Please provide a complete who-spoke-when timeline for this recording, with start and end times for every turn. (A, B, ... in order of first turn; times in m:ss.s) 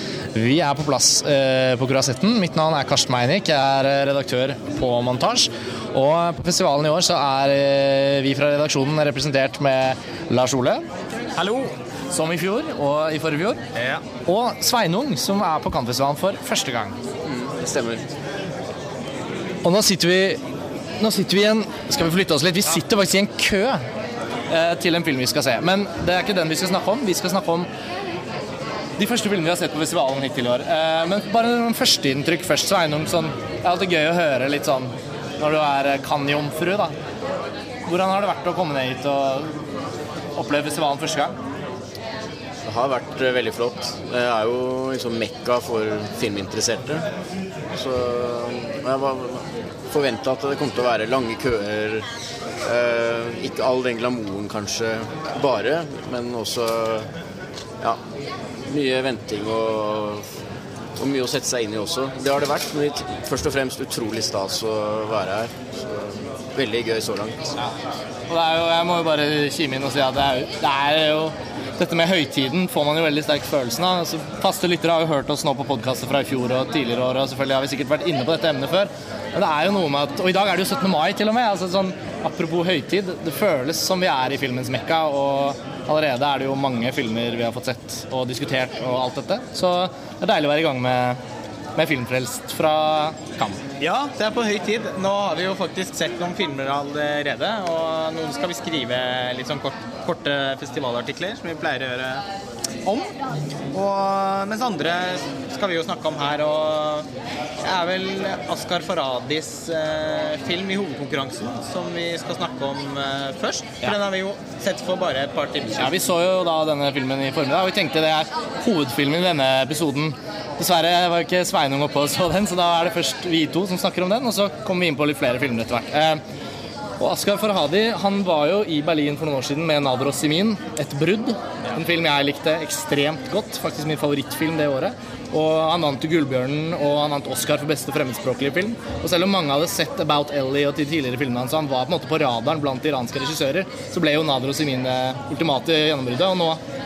0:00.3-0:10.9 A
0:11.4-0:11.7 B
0:12.1-0:13.6 A
0:13.8-0:14.0 B
0:14.3-0:17.0 A
0:17.2-0:18.1 C
0:19.6-0:20.4 A
0:21.0-0:23.8 A
0:24.5-0:27.7 A
0:29.0-0:36.9 A
0:37.9-0:39.5 A
0:40.4-0:41.4 A
0:42.6-0:47.1 C
0:47.7-0:52.1 C
0:52.6-0:57.1 C
0:58.7-1:00.3 C
1:01.0-1:07.6 C
1:08.3-1:31.2 A
1:31.8-1:33.6 A
1:33.8-1:42.2 B
1:42.8-1:43.1 B
1:43.7-1:47.1 B
1:47.6-1:56.0 B
1:55.8-2:06.2 A
2:07.0-2:26.6 A